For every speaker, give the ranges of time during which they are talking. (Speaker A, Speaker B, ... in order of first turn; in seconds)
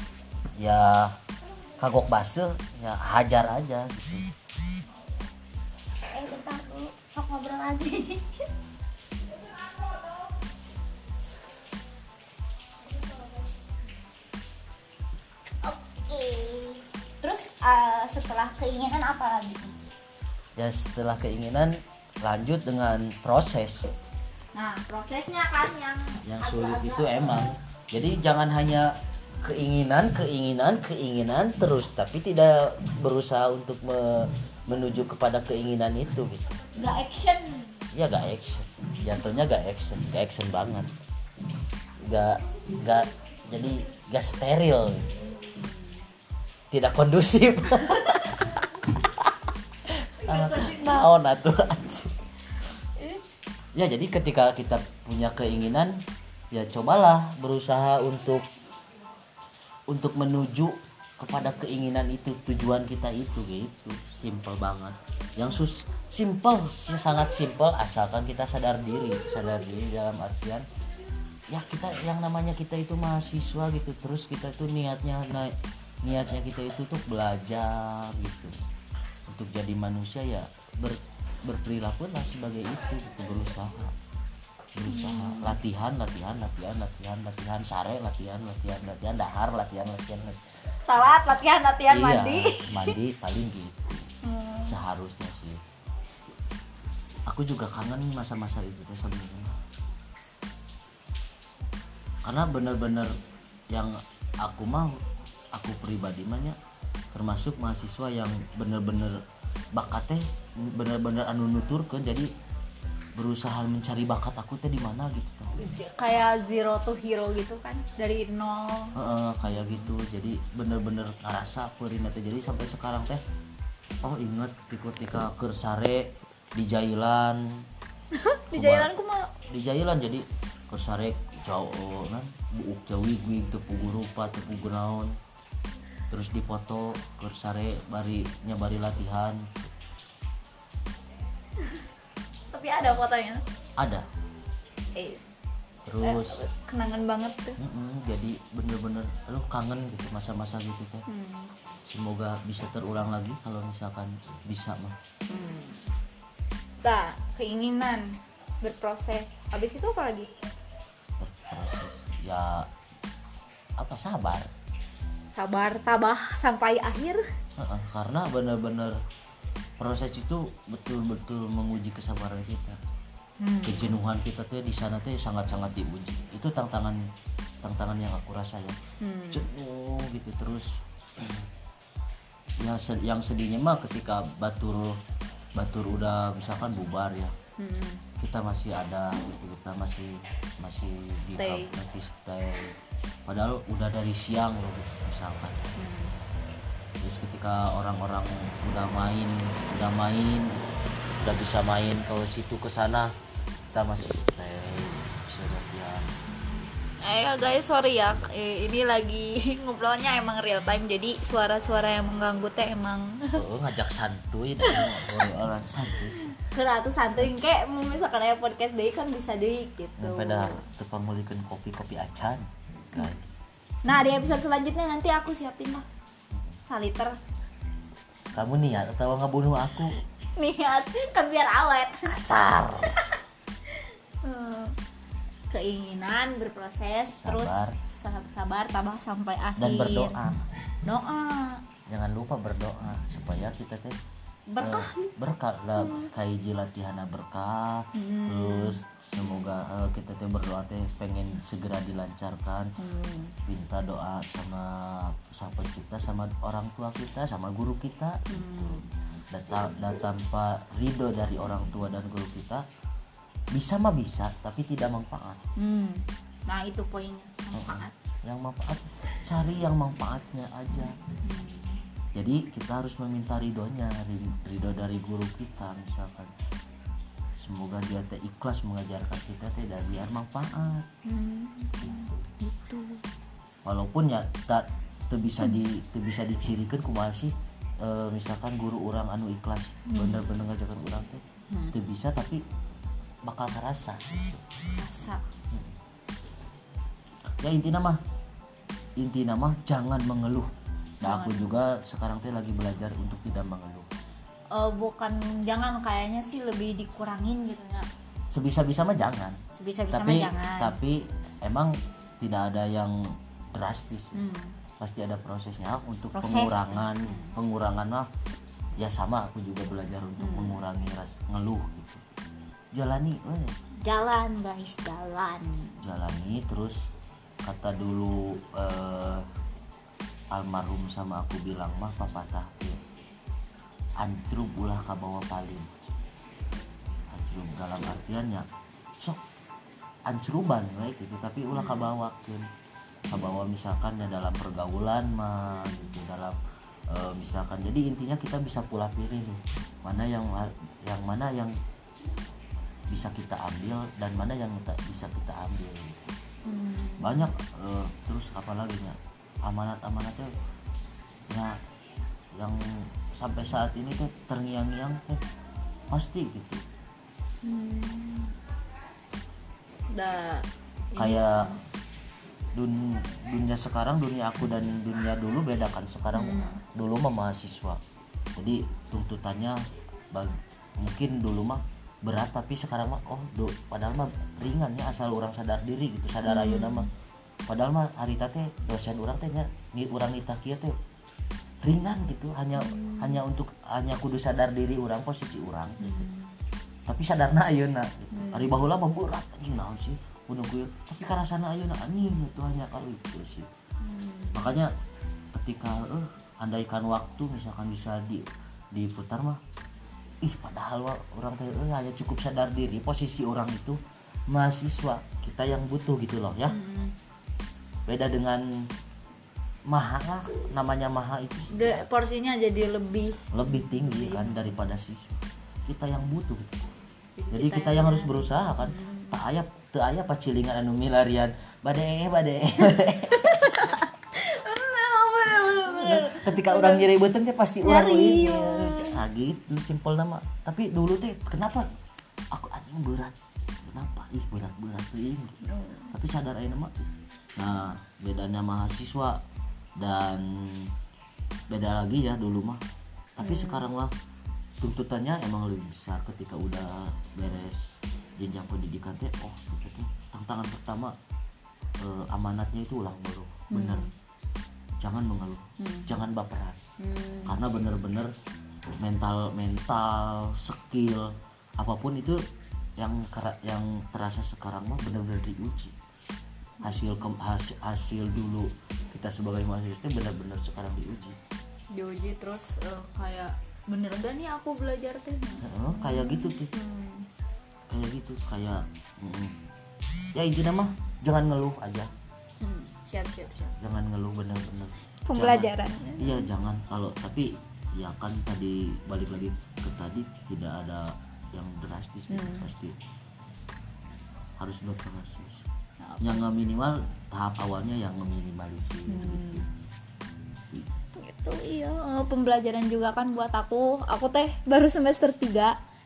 Speaker A: 0.6-1.1, 1.8-4.3, 20.6-23.9, 26.2-36.5, 37.9-40.9, 42.0-45.1, 46.7-52.1, 53.7-56.0, 56.5-58.4, 59.9-70.7, 71.5-78.6, 79.3-83.9, 84.7-90.4, 91.9-94.0, 94.7-95.6, 97.3-99.6, 102.2-103.1, 103.7-105.0, 105.5-106.6, 107.1-109.2, 109.7-112.3, 113.2-115.6, 118.9-123.2, 124.0-127.4, 128.5-128.9, 129.5-135.1, 136.1-139.6, 143.8-144.1, 145.8-146.4, 147.6-151.0, 151.9-155.0, 161.2-162.7, 163.8-164.5, 167.6-169.0, 169.8-172.8, 173.6-177.0, 177.6-178.8, 179.3-181.5, 182.6-185.0, 185.6-187.3, 188.2-195.6, 197.0-200.5, 201.2-203.1, 203.7-206.1, 213.3-216.3, 220.0-223.2, 228.3-229.9, 232.1-233.1, 237.1-237.8, 239.6-240.4, 241.9-244.0, 244.6-252.7, 253.4-258.8, 259.3-262.6, 263.5-265.4, 267.5-271.0, 272.1-276.3, 277.4-280.9, 281.9-282.2, 283.6-292.4, 293.2-294.4, 297.4-298.0, 299.0-300.5, 301.0-303.9, 308.3-309.4, 309.9-314.2, 314.8-318.1, 318.8-322.0, 322.7-323.5, 325.8-326.9, 327.4-329.3, 330.3-332.8, 334.0-335.9, 337.1-338.5, 340.1-342.4, 343.1-346.4, 346.9-351.5, 352.9-356.2, 357.0-360.3, 361.3-361.6, 362.3-365.2, 365.9-366.6, 371.0-371.5, 372.5-377.8, 378.4-379.6, 380.1-386.9, 387.5-390.8, 391.6-396.1, 396.9-403.5, 404.3-404.7, 405.3-409.4, 410.2-416.6, 417.9-418.7, 419.7-421.9, 423.3-426.7, 427.3-433.8, 435.5-441.7, 442.3-445.4, 445.9-446.8, 447.4-449.2, 449.8-450.7, 451.5-452.6, 453.2-453.9, 454.6-460.9, 461.8-463.8, 464.8-466.6, 467.2-468.1, 468.8-472.2, 472.8-475.8, 476.6-481.2, 485.4-486.5, 487.7-489.4, 490.1-491.9, 493.6-502.7, 504.4-505.4, 506.0-509.5
Speaker B: 6.1-8.4, 15.6-19.8, 24.6-27.5, 36.8-37.8, 47.9-48.3, 84.9-85.5, 90.9-92.9, 94.2-94.7, 115.6-119.0, 128.1-129.3, 142.5-143.4, 144.9-145.2, 146.0-147.6, 151.1-151.5, 155.3-155.8, 156.8-160.3, 165.3-167.2, 173.4-173.9, 179.0-179.5, 187.6-188.0, 191.2-191.7, 195.8-196.1, 207.0-213.4, 216.2-220.6, 223.8-225.8, 226.7-227.2, 230.3-232.1, 233.7-234.8, 235.5-240.2, 240.8-241.6, 244.5-245.1, 245.8-246.1, 247.9-248.8, 252.8-253.3, 258.3-258.9, 265.6-267.9, 271.2-271.8, 281.0-283.0, 289.9-290.4, 294.7-295.2, 301.0-301.5, 304.5-307.9, 309.5-310.7, 314.1-314.6, 316.1-317.3, 320.2-320.6, 323.8-325.8, 341.5-341.9, 345.5-345.9, 356.4-357.3, 367.4-368.3, 369.9-371.6, 376.1-376.6, 386.2-386.9, 392.6-393.2, 395.8-396.3, 398.1-398.6, 403.8-404.5, 416.5-416.9, 421.5-424.5, 427.2-429.1, 433.1-436.9, 437.6-439.0, 445.4-445.9, 453.2-453.7, 463.5-463.9, 465.6-465.9, 466.8-467.4, 476.6-477.1, 481.7-487.1, 492.4-493.5, 495.0-496.2, 502.1-502.5, 505.8-506.2, 508.9-509.4, 511.0-515.5